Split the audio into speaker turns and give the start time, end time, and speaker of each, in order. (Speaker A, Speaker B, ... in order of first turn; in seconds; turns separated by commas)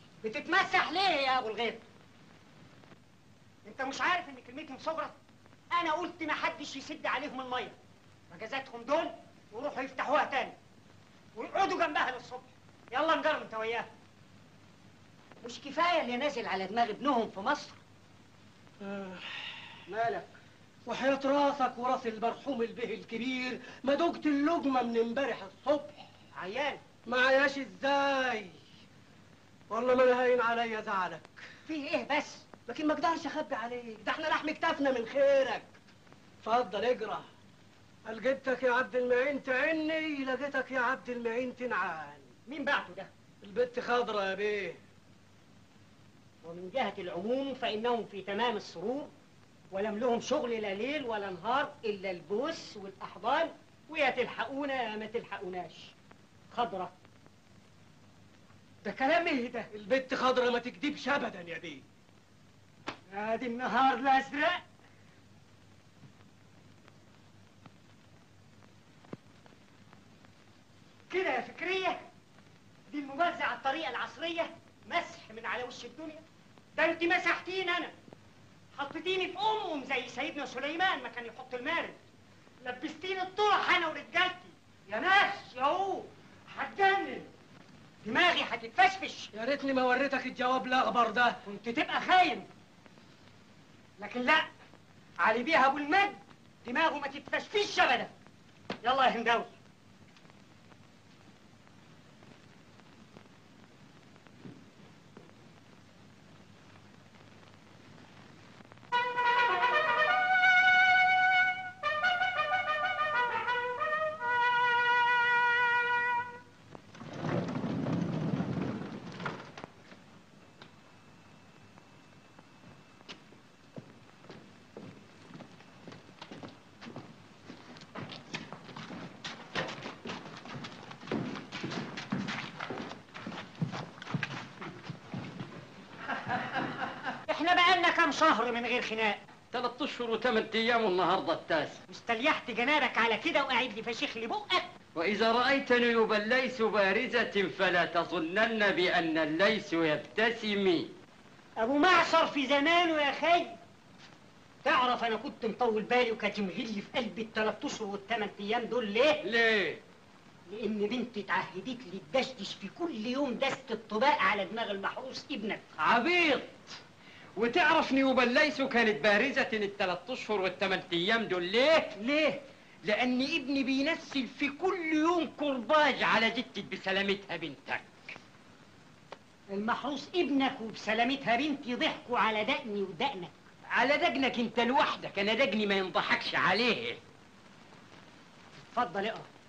Speaker A: 0.2-1.8, Speaker A: 3.6-5.2, Speaker A: 5.7-7.8, Speaker A: 8.3-10.6, Speaker A: 11.3-13.9, Speaker A: 15.4-17.8, Speaker B: 18.8-20.3, Speaker B: 20.9-26.1, Speaker A: 26.4-26.8, Speaker B: 27.1-28.6, Speaker B: 29.7-31.4, Speaker A: 31.7-32.5, Speaker B: 32.6-35.7, Speaker B: 36.4-37.3, Speaker B: 38.1-42.3, Speaker A: 42.5-43.1, Speaker B: 43.4-44.8, Speaker A: 46.4-49.1, Speaker A: 49.7-55.9, Speaker A: 56.5-56.9, Speaker A: 58.8-59.7, Speaker B: 59.7-61.8, Speaker A: 63.1-64.6, Speaker A: 71.1-72.0, Speaker A: 72.9-76.2, Speaker A: 76.7-77.9, Speaker A: 78.8-82.0, Speaker A: 82.6-87.3, Speaker A: 88.0-89.3, Speaker B: 89.3-91.3, Speaker A: 91.4-92.5, Speaker A: 94.0-94.5, Speaker A: 95.2-98.1, Speaker A: 98.8-99.5, Speaker A: 137.3-139.2, Speaker A: 141.9-144.7, Speaker C: 145.0-145.7, Speaker C: 149.2-150.9, Speaker A: 151.6-153.6, Speaker A: 154.6-159.2, Speaker C: 159.2-159.8, Speaker A: 160.5-165.6, Speaker C: 165.8-166.6, Speaker C: 167.4-172.0, Speaker A: 172.0-172.4, Speaker C: 172.8-178.1, Speaker A: 179.5-183.4, Speaker C: 183.7-187.0, Speaker A: 188.7-189.3